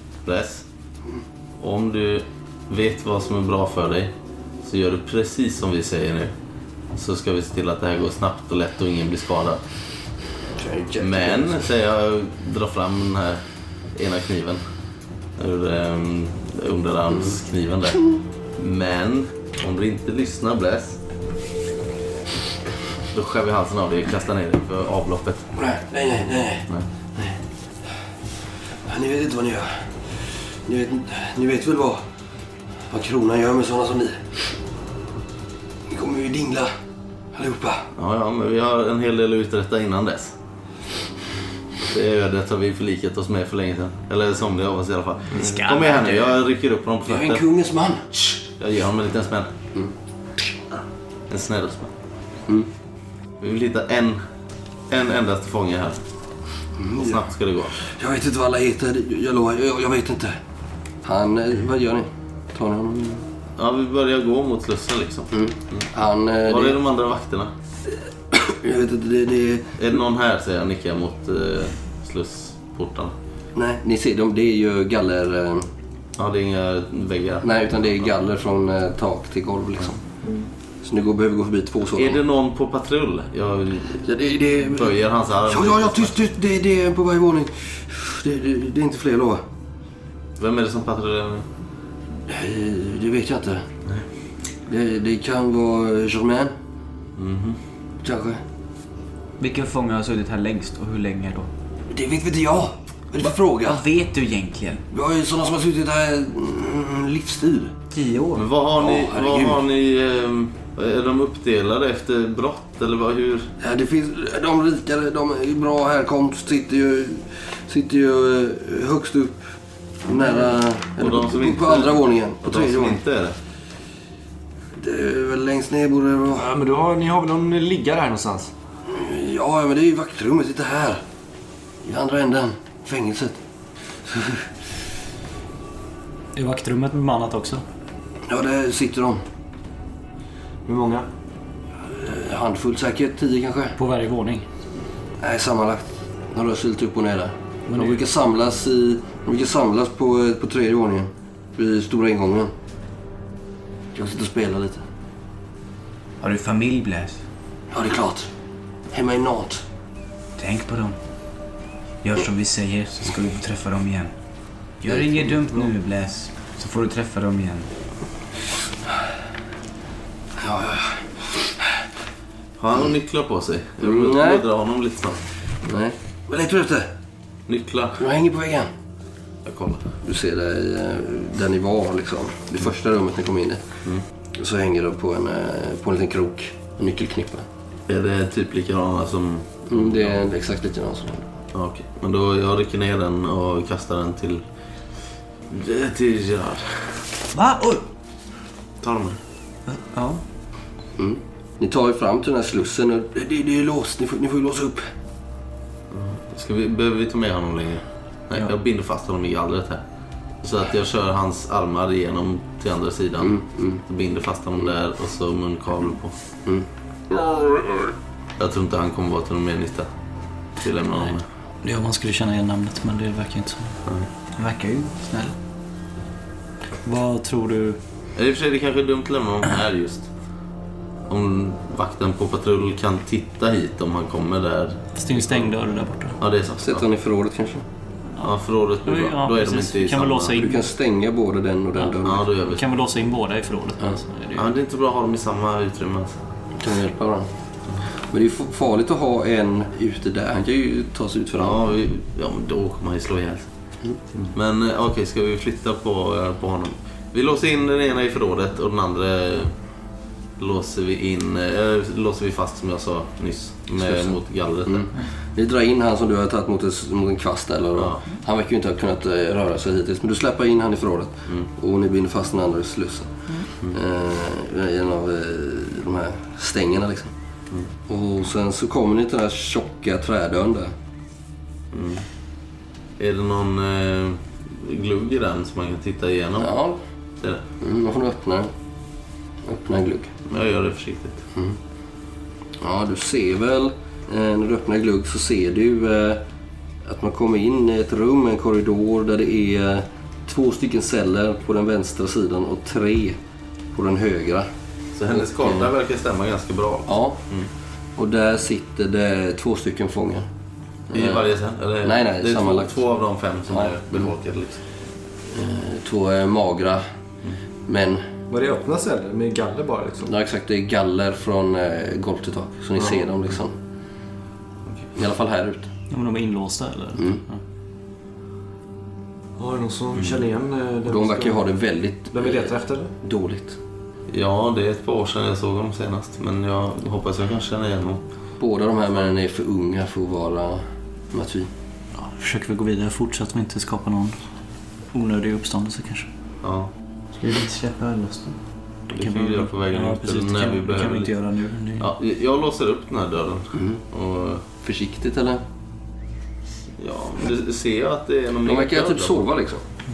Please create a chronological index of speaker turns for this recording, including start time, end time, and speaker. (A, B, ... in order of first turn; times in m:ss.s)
0:00.2-0:00.6 A
0:01.6-0:06.3 A
0:07.0-0:09.6 A
0:10.6-0:11.7 B
0:11.0-0:13.4 A
0:14.0-0:14.6 A
0:15.4-0:18.0 A
0:18.6-0:21.0 A
0:23.1-0:25.5 A
0:25.6-0:27.4 B
0:28.9-0:29.8 B
0:30.6-0:32.0 B
0:32.9-0:34.4 B
0:35.9-0:36.7 B
0:37.3-0:37.9 B
0:38.0-0:40.4 A
0:41.8-0:47.4 A
0:45.3-0:46.3 C
0:47.1-0:48.4 B
0:48.6-0:49.5 A
0:51.3-0:51.9 A
0:53.4-0:54.2 A
0:54.9-0:56.0 A
0:56.8-0:57.2 B
0:57.0-0:57.8 A
0:57.8-1:00.4 B
1:01.0-1:03.2 B
1:03.6-1:05.9 A
1:05.3-1:06.8 B
1:06.4-1:07.5 A
1:08.3-1:09.7 B
1:09.8-1:13.1 A
1:13.6-1:15.7 B
1:16.2-1:17.5 A
1:17.4-1:20.0 B
1:20.8-1:22.2 B
1:22.0-1:24.1 A
1:24.0-1:29.4 B
1:24.7-1:26.3 A
1:30.4-1:31.5 A
1:32.3-1:33.6 B
1:34.7-1:36.5 B
1:37.2-1:37.6 A
1:38.0-1:38.4 B
1:39.4-1:41.5 C
1:41.9-1:43.8 B
1:43.2-1:44.8 C
1:44.9-1:47.8 B
1:47.9-1:48.5 C
1:48.4-1:53.5 A
1:48.8-1:49.6 B
1:53.6-1:59.4 B
2:00.0-2:03.0 B
2:01.0-2:03.4 A
2:04.8-2:06.5 B
2:06.3-2:08.5 D
2:08.9-2:11.0 B
2:11.8-2:13.4 B
2:14.1-2:14.5 B
2:16.4-2:17.6 E
2:18.3-2:19.2 B
2:20.7-2:21.1 D
2:21.9-2:23.8 B
2:23.8-2:24.4 E
2:25.2-2:32.5 B
2:27.7-2:28.0 E
2:34.0-2:34.8 B
2:36.2-2:37.2 C
2:37.7-2:38.3 B
2:38.9-2:39.6 B
2:40.4-2:41.0 C
2:42.0-2:44.1 C
2:44.8-2:47.7 C
2:44.9-2:45.4 B
2:50.4-2:51.5 B
2:52.6-2:55.2 A
2:53.8-2:54.4 B
2:55.6-2:56.9 B
2:57.5-2:58.0 A
2:58.0-2:58.7 B
2:59.4-2:59.9 A
3:00.0-3:03.6 B
3:04.4-3:07.4 B
3:07.9-3:10.2 A
3:09.7-3:11.2 B
3:11.5-3:14.4 A
3:15.5-3:16.8 A
3:17.3-3:17.8 C
3:18.8-3:19.2 A
3:19.7-3:20.2 C
3:21.0-3:24.9 B
3:25.9-3:29.8 A
3:30.4-3:36.2 A
3:33.2-3:33.8 B
3:36.5-3:37.6 B
3:38.4-3:39.9 A
3:40.6-3:41.2 A
3:41.6-3:43.8 E
3:44.4-3:45.4 C
3:46.8-3:47.8 E
3:48.2-3:50.1 A
3:51.1-3:55.5 A
3:55.0-3:56.2 E
3:56.2-3:56.9 A
3:56.6-3:57.6 B
3:58.2-4:00.5 A
3:58.8-4:00.7 E
4:00.4-4:02.2 B
4:02.0-4:02.7 A
4:02.4-4:04.5 E
4:04.4-4:06.2 A
4:06.6-4:07.3 B
4:08.1-4:11.6 B
4:11.4-4:13.5 A
4:14.3-4:19.5 A
4:20.4-4:24.9 A
4:23.8-4:33.1 B
4:27.8-4:28.0 A
4:33.7-4:37.1 B
4:37.9-4:40.7 B
4:41.7-4:42.0 A
4:43.0-4:46.5 A
4:46.4-4:46.8 B
4:47.6-4:48.5 B
4:49.4-4:50.1 B
4:50.3-4:51.2 A
4:52.6-4:56.2 B
4:56.8-5:03.2 B
5:03.7-5:04.5 B
5:05.0-5:07.5 A
5:05.1-5:05.7 B
5:06.9-5:07.2 B
5:08.0-5:10.3 B
5:10.9-5:11.3 B
5:10.9-5:14.6 A
5:11.8-5:12.7 B
5:13.5-5:14.1 B
5:15.3-5:16.8 B
5:17.7-5:18.0 B
5:18.3-5:20.1 D
5:20.1-5:23.6 B
5:25.0-5:25.7 B
5:25.9-5:27.4 E
5:29.4-5:31.4 D
5:30.9-5:33.6 B
5:32.1-5:32.9 D
5:34.1-5:38.0 A
5:38.4-5:41.5 B
5:42.0-5:44.2 E
5:44.9-5:46.1 E
5:46.4-5:46.7 A
5:47.2-5:48.4 C
5:48.9-5:51.1 A
5:48.9-5:51.9 E
5:51.8-5:54.4 A
5:53.6-5:53.8 B
5:54.6-5:55.4 B
5:56.8-5:59.3 A
5:58.4-5:59.6 B